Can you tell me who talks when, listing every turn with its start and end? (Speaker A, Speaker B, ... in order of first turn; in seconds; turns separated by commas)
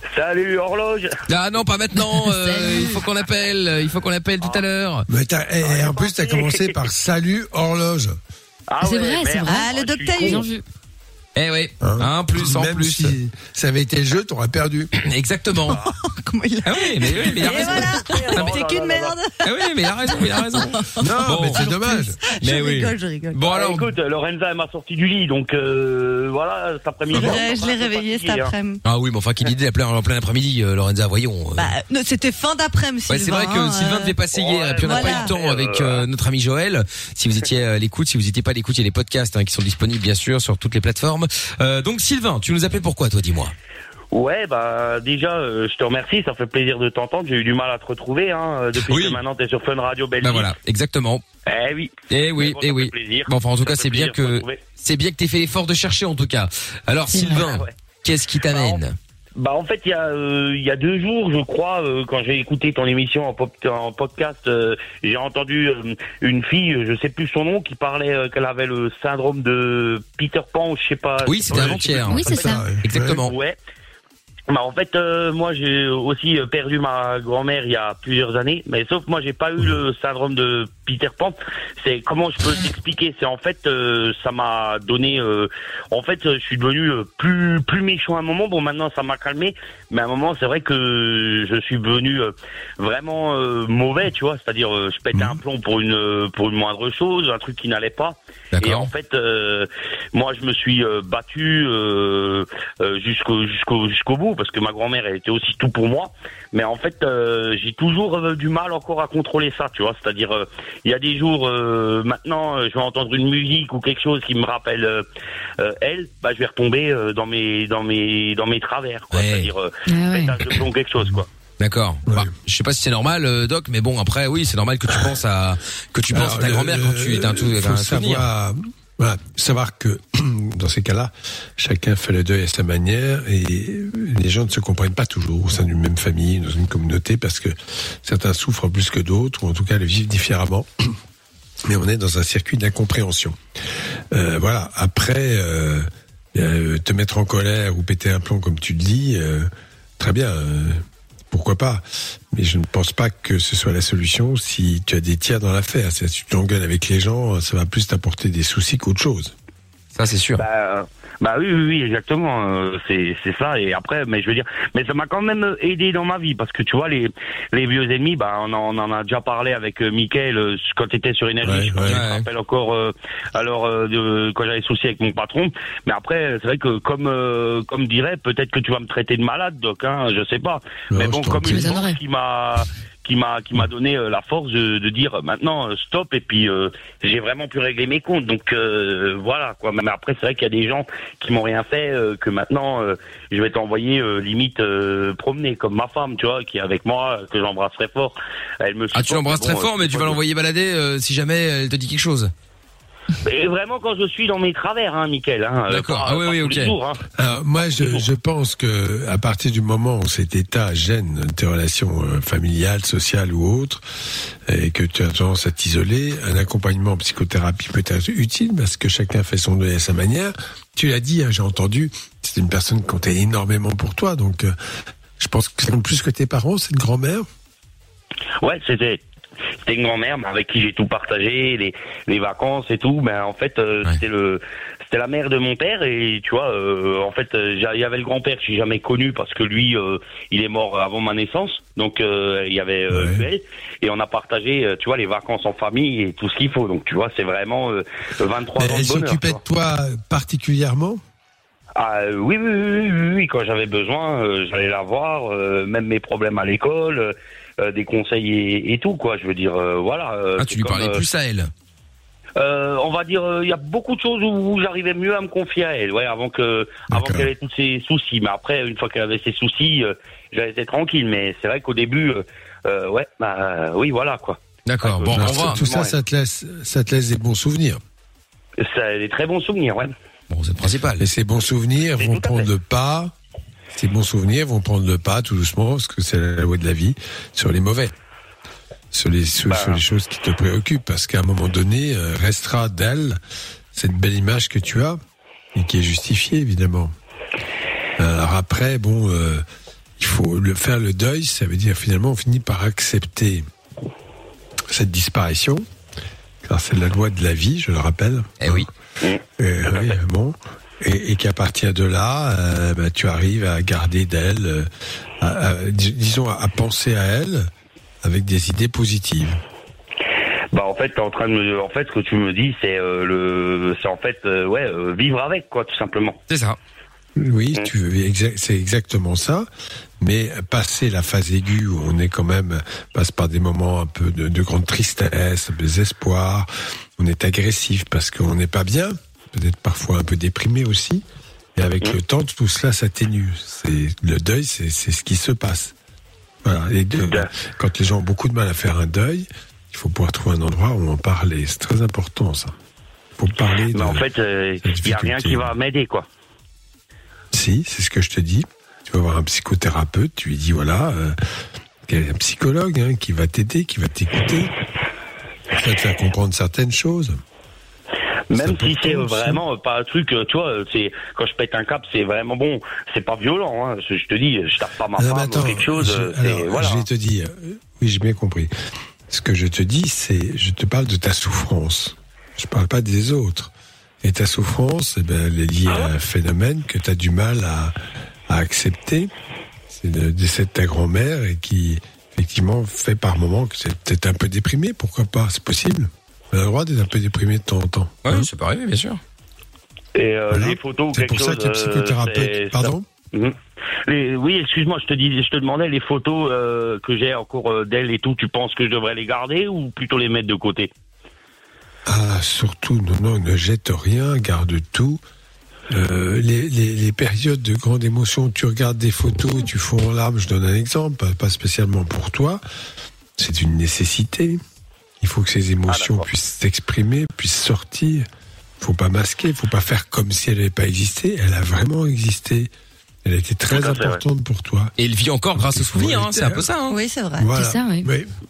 Speaker A: 0.1-1.2, Speaker B: 1.3-5.1, Speaker C: 2.2-3.0, Speaker D: 5.1-8.2, Speaker A: 5.6-6.7, Speaker A: 8.7-10.4, Speaker C: 8.8-10.6, Speaker E: 9.5-10.5, Speaker B: 11.4-13.2, Speaker D: 11.8-14.9, Speaker B: 14.9-15.9, Speaker E: 15.7-23.4, Speaker B: 16.6-18.5, Speaker A: 17.4-19.2, Speaker B: 19.4-21.7, Speaker D: 21.0-22.2, Speaker B: 22.4-23.9, Speaker A: 23.4-28.5, Speaker E: 27.1-28.8, Speaker B: 28.8-31.7, Speaker E: 31.6-34.2, Speaker B: 33.1-43.5, Speaker A: 34.3-36.0, Speaker E: 34.8-35.3, Speaker A: 44.1-50.5, Speaker B: 48.8-49.2, Speaker B: 50.2-51.2, Speaker A: 51.5-54.6, Speaker B: 52.1-59.0, Speaker A: 57.5-57.7, Speaker A: 58.5-58.8, Speaker A: 59.4-73.6, Speaker B: 71.3-72.3, Speaker C: 72.1-72.7, Speaker D: 72.2-73.2, Speaker B: 72.8-73.3, Speaker A: 74.5-115.1, Speaker B: 98.5-98.9, Speaker A: 115.6-121.3, Speaker B: 119.1-119.5, Speaker C: 119.9-120.3, Speaker B: 121.6-128.3, Speaker D: 126.1-140.9, Speaker D: 141.7-143.4, Speaker D: 144.1-159.3, Speaker B: 159.9-160.4, Speaker A: 160.4-200.2, Speaker D: 171.4-172.0, Speaker B: 171.8-172.2, Speaker D: 180.9-181.8, Speaker C: 181.4-182.0, Speaker B: 198.9-202.3, Speaker A: 203.2-207.0, Speaker B: 205.7-206.7, Speaker D: 207.2-213.8, Speaker D: 214.5-224.6, Speaker D: 225.2-227.3, Speaker A: 228.4-229.0, Speaker A: 229.6-249.4, Speaker D: 242.9-243.3, Speaker D: 248.6-251.0, Speaker A: 251.8-261.0, Speaker B: 260.4-261.5, Speaker A: 262.4-276.0, Speaker D: 266.9-267.3, Speaker B: 274.7-275.6, Speaker D: 275.1-277.8, Speaker A: 278.6-279.9, Speaker B: 280.3-281.1, Speaker D: 281.0-283.1, Speaker A: 282.0-282.5, Speaker D: 283.8-287.9, Speaker D: 288.9-293.2, Speaker A: 289.5-289.8, Speaker D: 293.7-295.0, Speaker D: 295.5-296.9, Speaker D: 298.0-299.4, Speaker D: 300.0-303.5, Speaker D: 304.7-305.6, Speaker D: 306.4-308.7, Speaker B: 308.4-308.7, Speaker D: 309.4-314.7, Speaker D: 315.2-317.5, Speaker D: 318.0-319.4, Speaker A: 320.5-326.2, Speaker B: 326.3-326.6, Speaker D: 327.2-329.5, Speaker D: 330.0-345.7, Speaker D: 346.4-352.5, Speaker A: 347.0-347.3, Speaker D: 353.2-354.0, Speaker A: 353.7-356.1, Speaker D: 354.6-355.5, Speaker D: 357.3-361.2, Speaker D: 361.9-364.5, Speaker D: 365.5-367.2, Speaker A: 368.3-376.9, Speaker D: 368.3-369.4, Speaker D: 375.0-378.5, Speaker D: 379.1-383.5, Speaker D: 384.0-387.7, Speaker D: 388.3-389.1, Speaker D: 389.7-398.3, Speaker B: 398.1-399.0, Speaker A: 399.9-410.7, Speaker D: 400.3-402.9, Speaker D: 411.9-415.0, Speaker D: 415.7-422.4, Speaker D: 423.2-424.4, Speaker D: 425.0-428.1, Speaker A: 425.7-426.1, Speaker D: 428.6-432.5, Speaker D: 433.1-434.7, Speaker A: 433.5-434.0, Speaker B: 434.8-436.8, Speaker D: 435.4-436.5, Speaker E: 436.7-437.3, Speaker D: 437.2-438.1, Speaker C: 437.4-437.9